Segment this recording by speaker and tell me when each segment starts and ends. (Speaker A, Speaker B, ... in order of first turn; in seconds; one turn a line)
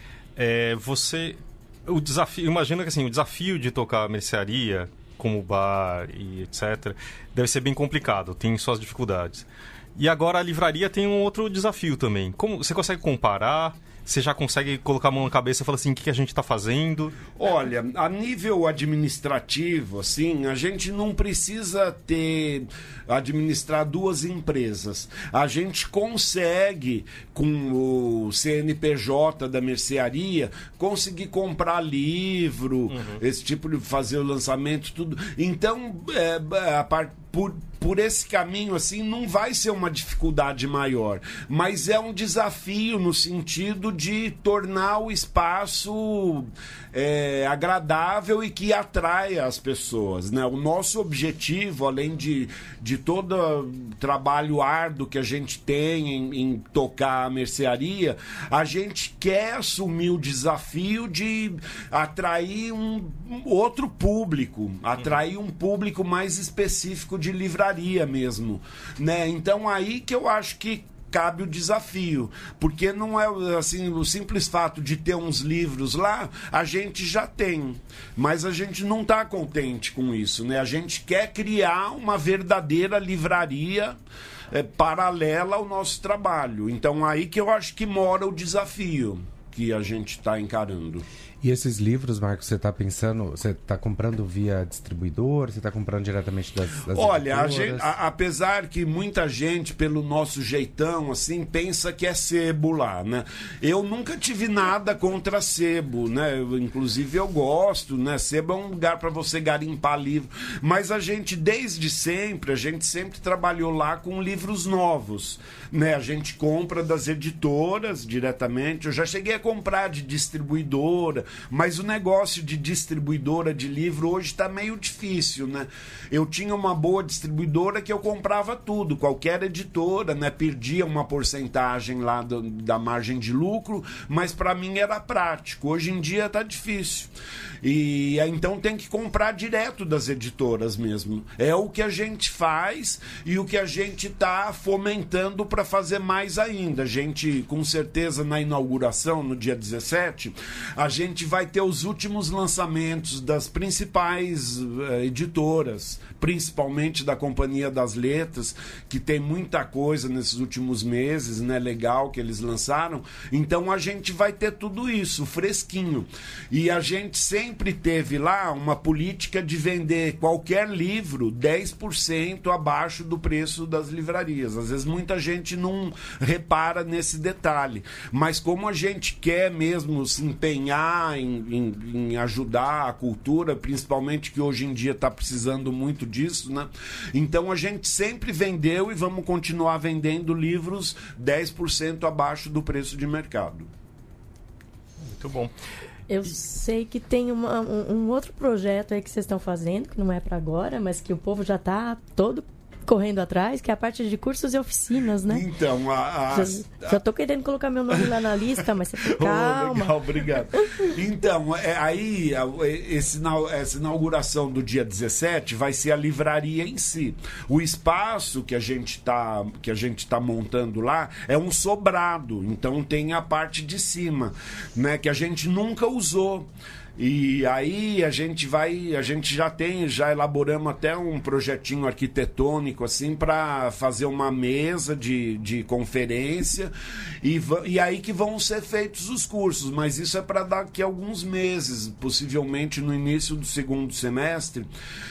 Speaker A: 0.3-17.2
Speaker B: 17.4-84.0
Speaker A: 32.9-33.2
Speaker B: 84.5-91.0
Speaker C: 91.4-97.9
Speaker B: 96.9-137.1
Speaker B: 137.6-193.7
Speaker A: 195.1-195.5
Speaker D: 196.1-205.4
Speaker B: 205.3-207.0
Speaker D: 206.3-209.9
Speaker B: 209.0-244.7